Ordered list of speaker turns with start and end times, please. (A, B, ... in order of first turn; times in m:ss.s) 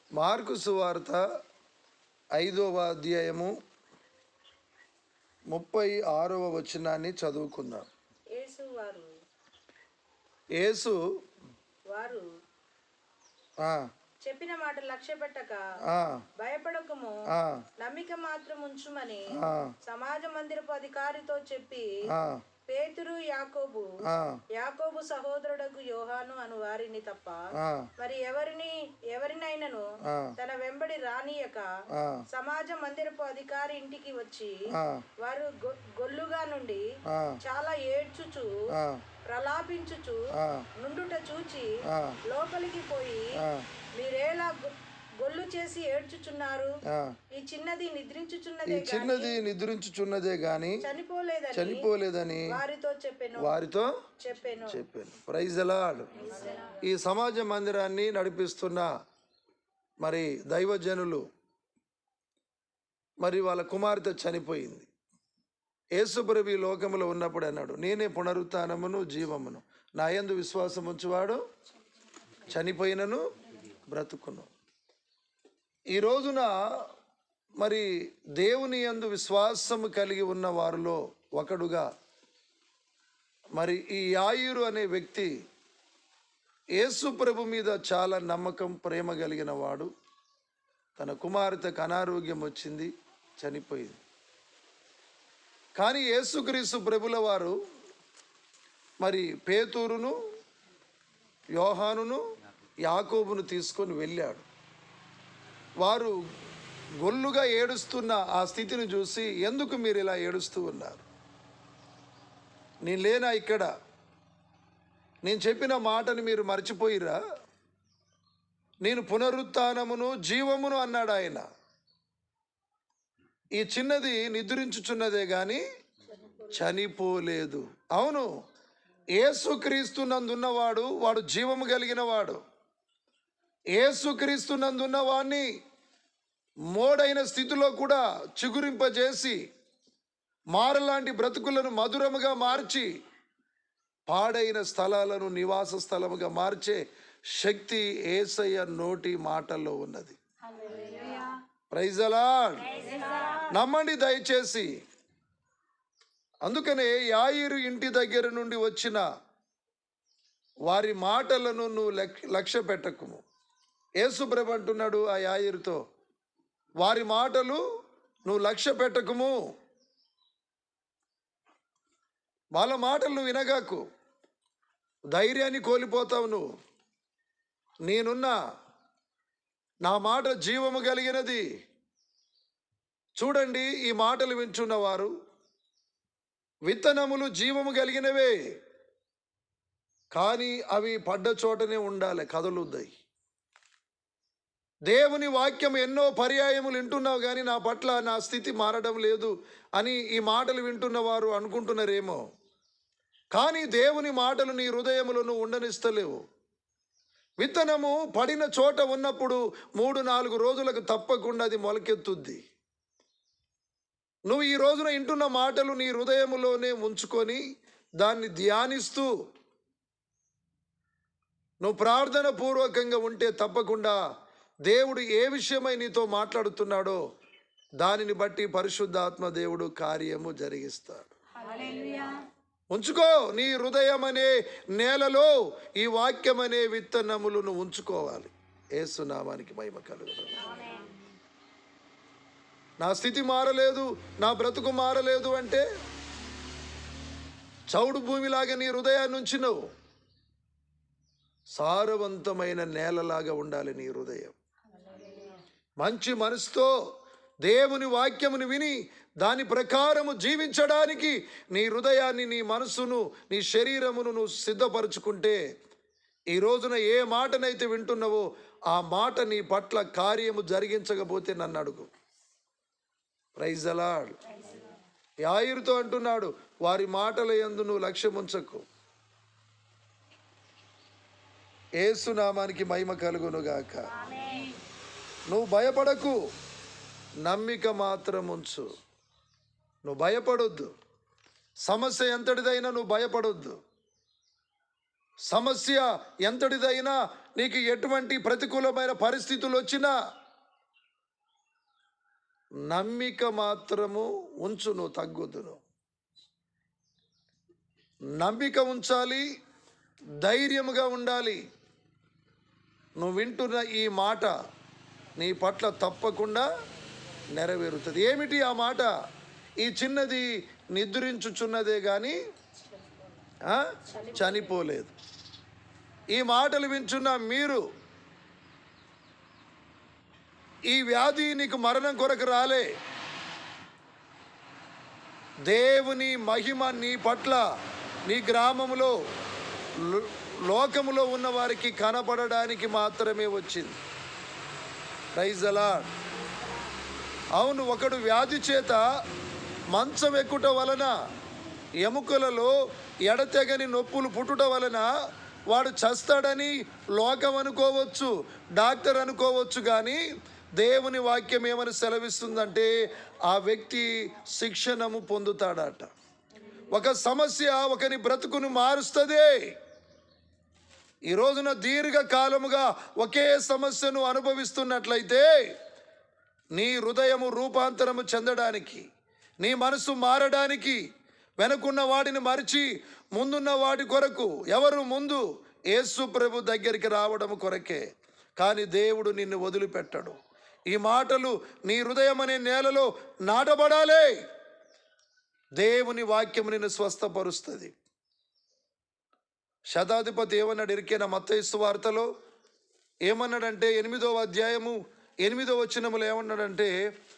0:00.2-0:01.2 A
0:02.4-0:03.5 A
0:05.5-0:07.9 A
0:08.3-0:09.1 B
0:10.6-0:11.0 A
0:11.9-0:12.3 B
0:13.6-0:13.9 A
0:14.2-0:15.6 B
0:15.9-0:16.2 A
0:16.4-0:17.2 B
0:17.3-0:17.6 A
0:17.8-0:19.3 B
0:19.4-0:19.7 A
0:19.8-0:22.0 B
0:22.1-0:22.4 A
0:22.7-0:24.0 B
0:24.0-0:24.4 A
0:24.6-0:27.4 B
0:27.6-0:27.9 A
0:28.0-0:29.9 B
0:30.1-0:30.4 A
0:30.4-0:31.7 B
0:32.0-0:32.2 A
0:32.3-0:34.6 B
0:34.7-0:35.1 A
0:35.2-0:36.9 B
0:37.1-0:37.4 A
0:37.4-0:38.6 B
0:38.7-0:39.0 A
0:39.3-0:40.2 B
0:40.4-0:40.7 A
0:40.8-0:41.7 B
0:41.8-0:42.2 A
0:42.3-0:43.4 B
0:43.4-0:43.7 A
0:44.0-0:46.7 B
0:46.9-0:47.2 A
0:47.3-0:49.4 B
0:48.7-0:50.8 A
0:50.8-0:51.9 B
0:51.5-0:52.6 A
0:52.5-0:53.6 B
0:53.4-0:53.9 A
0:54.2-0:54.8 B
0:54.7-0:56.1 A
0:56.2-0:56.8 B
0:56.8-0:58.9 A
1:00.0-1:01.2 A
1:03.2-1:04.9 A
1:06.0-1:11.4 A
1:12.5-1:13.2 A
1:13.9-1:14.5 A
1:15.9-1:16.6 A
1:17.6-1:21.9 A
1:23.6-1:25.3 A
1:26.8-1:29.9 A
1:31.0-1:34.0 A
1:35.8-1:37.6 A
1:39.0-1:40.2 A
1:41.6-1:42.2 A
1:42.9-1:44.5 A
1:45.8-1:46.2 A
1:47.0-1:51.0 A
1:52.8-1:53.7 A
1:55.2-1:57.2 A
1:58.8-2:01.4 A
2:03.6-2:05.6 A
2:06.1-2:06.6 B
2:06.5-2:08.3 A
2:09.2-2:12.4 A
2:13.8-2:15.5 A
2:16.7-2:19.4 A
2:20.5-2:22.9 A
2:24.1-2:26.8 A
2:27.3-2:30.2 A
2:30.6-2:31.3 B
2:31.7-2:33.0 A
2:32.8-2:33.4 B
2:33.5-2:34.7 A
2:36.4-2:39.0 A
2:40.7-2:43.2 A
2:44.0-2:45.8 A
2:46.8-2:47.6 A
2:48.3-2:49.4 A
2:52.5-2:53.8 A
2:55.1-2:56.5 A
2:57.9-2:58.4 A
2:59.8-3:01.4 A
3:03.2-3:05.1 A
3:06.7-3:08.4 A
3:10.1-3:12.9 A
3:14.9-3:22.2 A
3:23.3-3:26.2 A
3:27.4-3:32.4 A
3:34.3-3:37.4 A
3:38.0-3:39.1 A
3:41.6-3:44.0 A
3:44.7-3:47.0 A
3:47.8-3:51.1 A
3:51.6-3:52.1 B
3:52.7-4:00.6 A
4:00.5-4:00.9 B
4:02.8-4:05.6 A
4:07.7-4:09.6 A
4:11.6-4:14.4 A
4:15.8-4:16.7 A
4:17.4-4:25.4 A
4:26.3-4:31.9 A
4:33.4-4:34.2 A
4:35.3-4:38.6 A
4:41.8-4:43.9 A
4:44.1-4:44.5 B
4:45.3-4:46.2 A
4:47.2-4:48.7 A
4:49.9-4:50.7 A
4:51.6-4:53.6 A
4:55.3-4:59.9 A
5:02.7-5:05.6 A
5:08.2-5:09.2 A
5:10.2-5:11.4 A
5:13.0-5:14.3 A
5:15.2-5:16.5 A
5:17.4-5:18.9 A
5:19.6-5:22.2 A
5:22.7-5:23.0 B
5:23.5-5:24.9 A
5:23.8-5:24.6 B
5:26.1-5:27.6 A
5:30.7-5:32.7 A
5:35.5-5:37.4 A
5:38.1-5:39.0 A
5:39.8-5:43.8 A
5:45.2-5:45.9 A
5:47.4-5:48.8 A
5:49.7-5:50.9 A
5:51.8-5:52.5 A
5:53.1-5:54.9 A
5:55.5-6:00.0 A
6:00.6-6:02.7 A
6:03.3-6:05.9 A
6:06.7-6:09.5 A
6:11.1-6:15.5 A
6:16.6-6:18.8 A
6:19.4-6:20.8 A
6:21.4-6:27.8 A
6:28.4-6:30.2 A
6:30.7-6:34.2 A
6:35.6-6:37.7 A
6:39.7-6:42.1 A
6:43.1-6:46.7 A